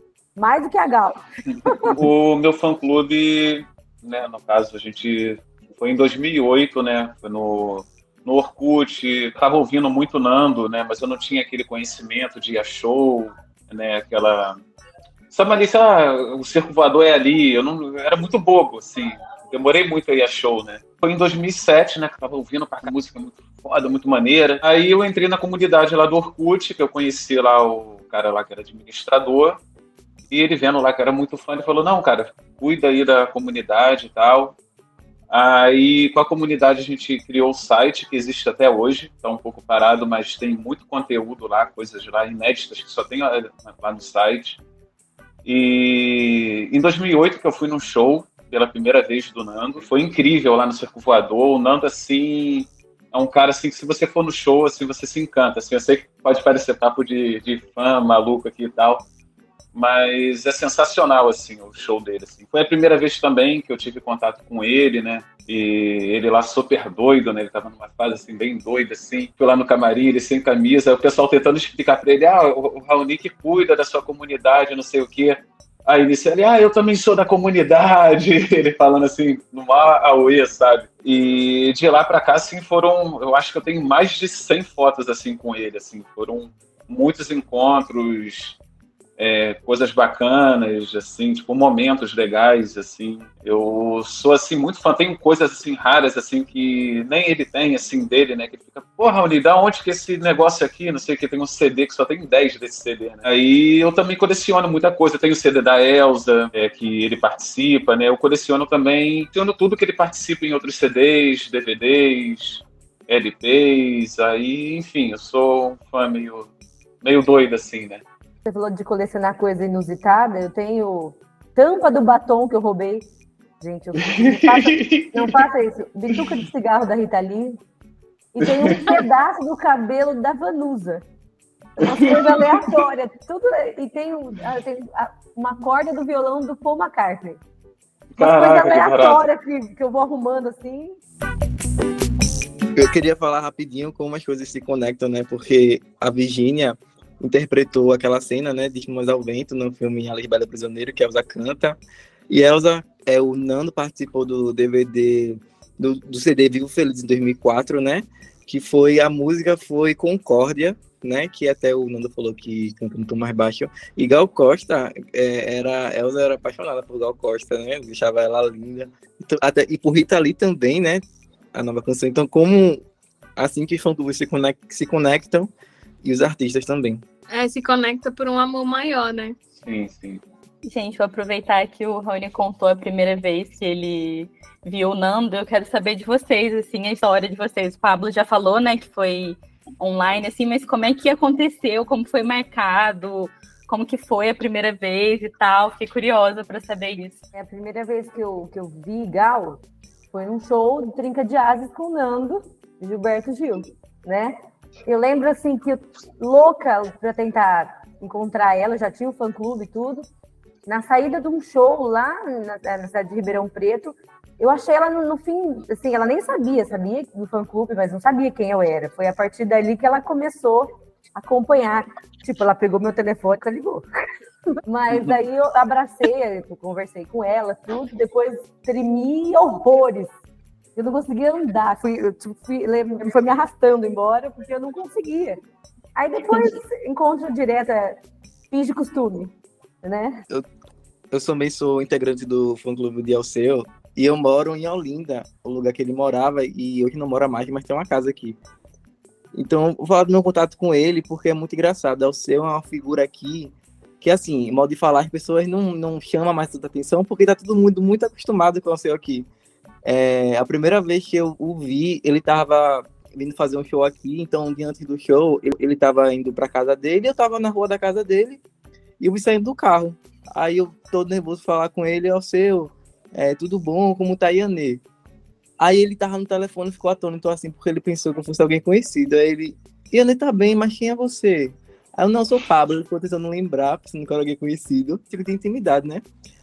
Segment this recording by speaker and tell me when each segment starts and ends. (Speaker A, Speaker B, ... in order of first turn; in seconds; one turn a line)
Speaker A: 0.3-2.0
Speaker B: 1.8-14.6
Speaker B: 15.3-29.6
Speaker B: 30.3-34.6
Speaker B: 35.3-44.6
Speaker B: 45.4-59.0
Speaker B: 59.7-88.6
Speaker B: 89.2-116.5
Speaker B: 117.0-118.0
Speaker A: 118.5-123.1
Speaker A: 123.6-127.6
Speaker B: 124.0-125.4
Speaker B: 126.1-126.4
Speaker A: 128.3-131.0
Speaker B: 128.4-129.0
Speaker B: 131.8-132.8
Speaker A: 131.8-137.4
Speaker B: 138.1-139.2
Speaker A: 138.2-141.0
Speaker C: 142.8-151.8
Speaker C: 152.3-172.8
Speaker C: 173.4-175.5
Speaker C: 176.0-177.0
Speaker D: 177.3-179.3
Speaker B: 179.6-180.2
Speaker E: 180.6-197.2
Speaker A: 197.3-210.1
Speaker A: 210.7-223.8
Speaker A: 224.6-230.1
Speaker A: 230.8-235.4
Speaker A: 235.9-238.0
Speaker A: 238.5-240.2
Speaker C: 241.1-248.4
Speaker C: 249.3-259.3
Speaker C: 259.8-268.4
Speaker C: 269.0-274.8
Speaker C: 275.6-286.0